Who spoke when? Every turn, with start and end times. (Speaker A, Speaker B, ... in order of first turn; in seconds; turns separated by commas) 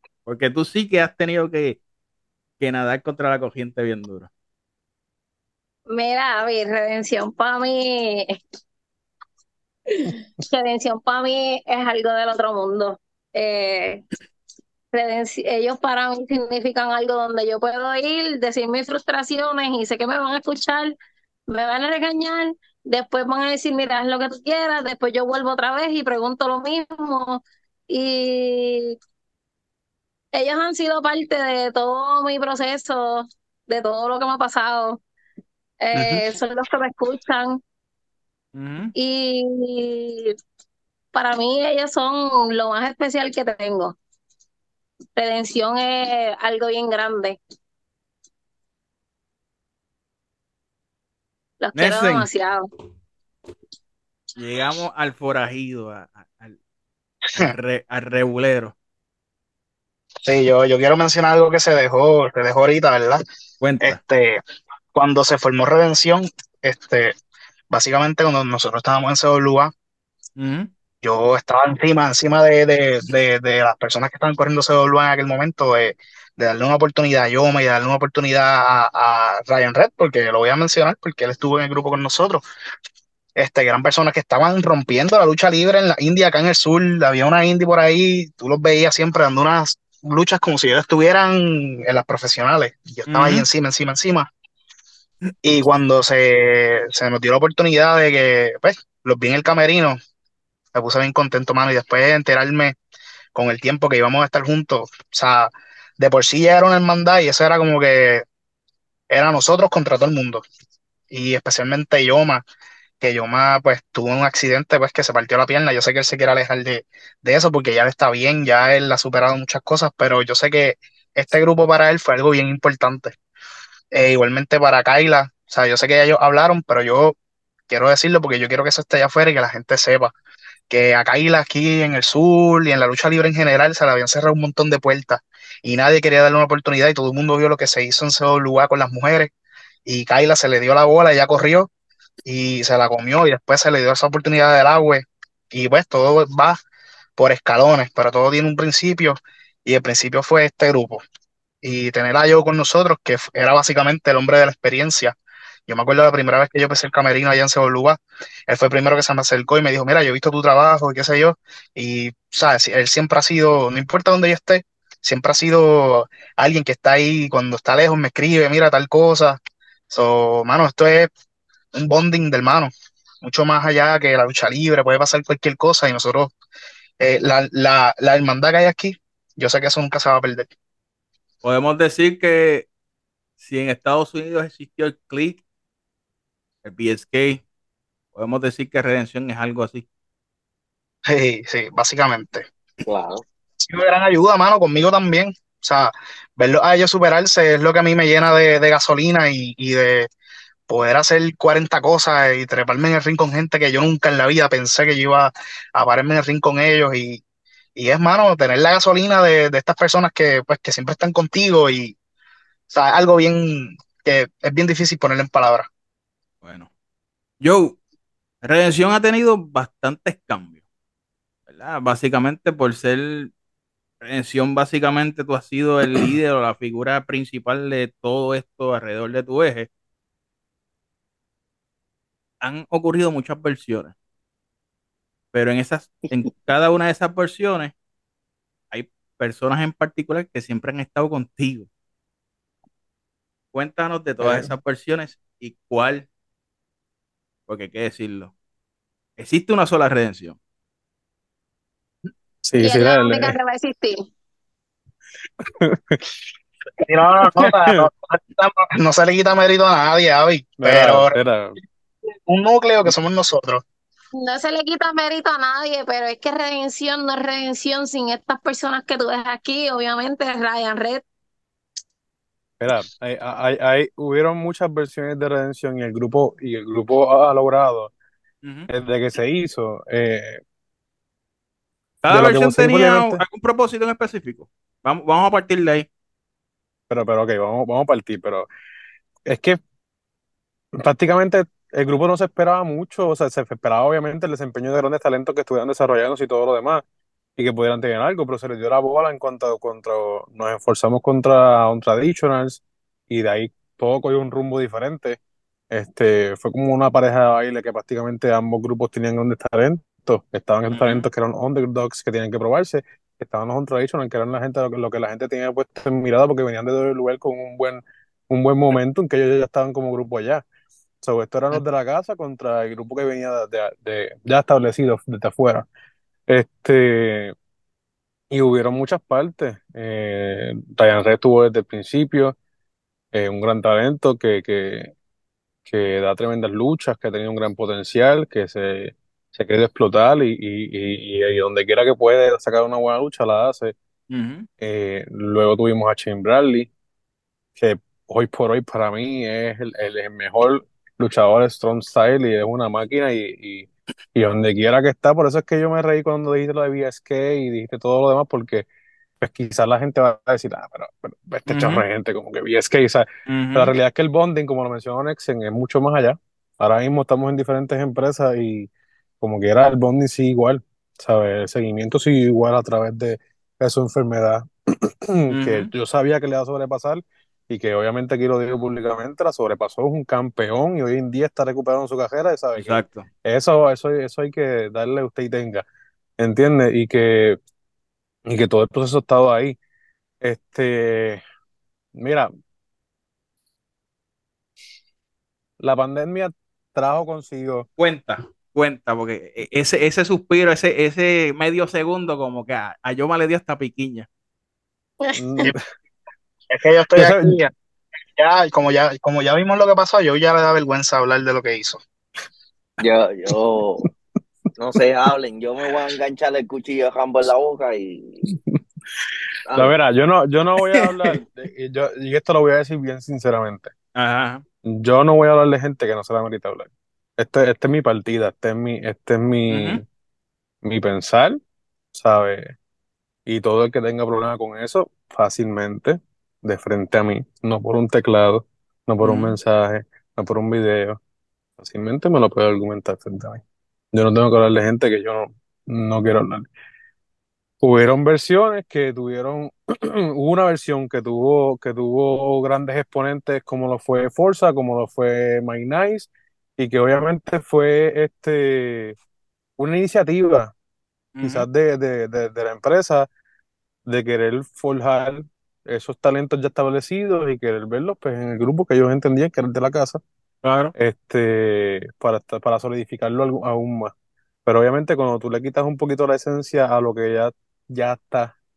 Speaker A: 0.2-1.8, Speaker A: 2.6-4.3, Speaker B: 5.9-8.4, Speaker B: 9.9-14.0, Speaker B: 14.9-20.9, Speaker B: 21.5-29.0, Speaker B: 30.3-35.0, Speaker B: 35.8-37.6, Speaker C: 35.9-36.2, Speaker A: 38.5-38.9, Speaker B: 38.9-40.3, Speaker B: 41.1-44.0, Speaker B: 45.1-47.4, Speaker B: 51.6-52.7, Speaker A: 51.8-52.3, Speaker A: 54.4-56.5, Speaker A: 57.4-58.7, Speaker C: 60.2-63.2, Speaker A: 63.6-64.0, Speaker C: 63.8-64.4, Speaker C: 64.9-67.1, Speaker C: 67.7-69.7, Speaker A: 70.4-70.7, Speaker C: 71.0-82.4, Speaker C: 83.4-94.3, Speaker A: 93.1-93.5, Speaker C: 95.4-100.0, Speaker C: 100.7-102.8, Speaker C: 103.3-108.2, Speaker C: 109.1-110.4, Speaker C: 111.1-112.4, Speaker C: 113.0-123.1, Speaker C: 123.9-127.1, Speaker C: 127.7-130.1, Speaker C: 130.7-139.3, Speaker C: 139.9-141.7, Speaker C: 142.2-146.6, Speaker C: 147.2-151.0, Speaker C: 151.6-155.1, Speaker C: 155.7-169.4, Speaker C: 169.9-171.1, Speaker C: 171.7-176.3, Speaker C: 177.0-180.5, Speaker A: 181.4-182.7, Speaker A: 183.4-185.4, Speaker A: 186.6-187.4, Speaker A: 188.1-189.8, Speaker C: 191.1-192.4, Speaker D: 192.8-193.2, Speaker C: 193.7-200.1, Speaker C: 200.7-207.2, Speaker C: 207.8-211.9, Speaker C: 212.7-215.7, Speaker A: 216.4-216.7, Speaker A: 217.4-217.8, Speaker A: 218.4-220.6, Speaker A: 221.5-223.3, Speaker A: 224.0-229.7, Speaker A: 232.4-233.9, Speaker A: 235.3-237.7, Speaker A: 238.7-241.7, Speaker A: 243.5-246.1, Speaker E: 244.2-244.5, Speaker A: 247.5-248.3, Speaker A: 249.2-250.4, Speaker E: 252.4-253.3, Speaker B: 252.6-254.1, Speaker E: 255.4-256.2, Speaker C: 256.9-261.1, Speaker E: 257.2-257.9, Speaker E: 260.6-261.6, Speaker C: 262.3-263.6, Speaker B: 264.1-271.0, Speaker E: 272.6-277.9, Speaker A: 278.4-278.7, Speaker E: 278.7-280.4, Speaker A: 282.0-285.9, Speaker E: 282.1-283.2, Speaker E: 286.9-288.5, Speaker E: 289.2-289.6, Speaker E: 290.8-296.8, Speaker E: 297.4-305.2, Speaker E: 305.7-320.4, Speaker A: 310.7-311.1, Speaker E: 321.0-325.6, Speaker E: 326.3-327.3, Speaker E: 328.3-332.3, Speaker E: 333.1-334.9, Speaker E: 335.6-343.7, Speaker A: 344.1-344.5, Speaker E: 344.6-346.7, Speaker E: 347.6-358.6, Speaker E: 359.2-368.7, Speaker A: 361.5-361.8, Speaker A: 363.3-363.7, Speaker E: 369.2-385.6, Speaker A: 375.3-375.7, Speaker A: 382.6-383.0, Speaker E: 386.2-387.4, Speaker E: 388.3-389.6, Speaker E: 390.2-391.2, Speaker E: 391.9-392.3, Speaker E: 395.6-397.6, Speaker A: 397.8-404.1, Speaker B: 405.0-405.4, Speaker E: 405.2-405.6, Speaker C: 406.5-407.5, Speaker E: 406.9-407.3, Speaker C: 408.1-411.8, Speaker D: 412.8-413.9, Speaker D: 414.6-418.2, Speaker E: 418.3-418.6, Speaker D: 419.5-419.7, Speaker E: 419.5-423.7, Speaker A: 420.7-421.2, Speaker A: 423.9-424.4, Speaker E: 424.6-429.8, Speaker A: 429.5-429.8, Speaker E: 430.6-431.4, Speaker E: 431.9-432.5, Speaker E: 433.3-441.0, Speaker A: 439.0-439.4, Speaker E: 441.6-446.5, Speaker E: 447.6-458.9, Speaker E: 459.6-460.5, Speaker A: 461.1-461.5, Speaker E: 461.2-463.1, Speaker E: 463.9-470.0, Speaker A: 470.4-470.7, Speaker E: 470.7-473.9, Speaker E: 474.4-478.3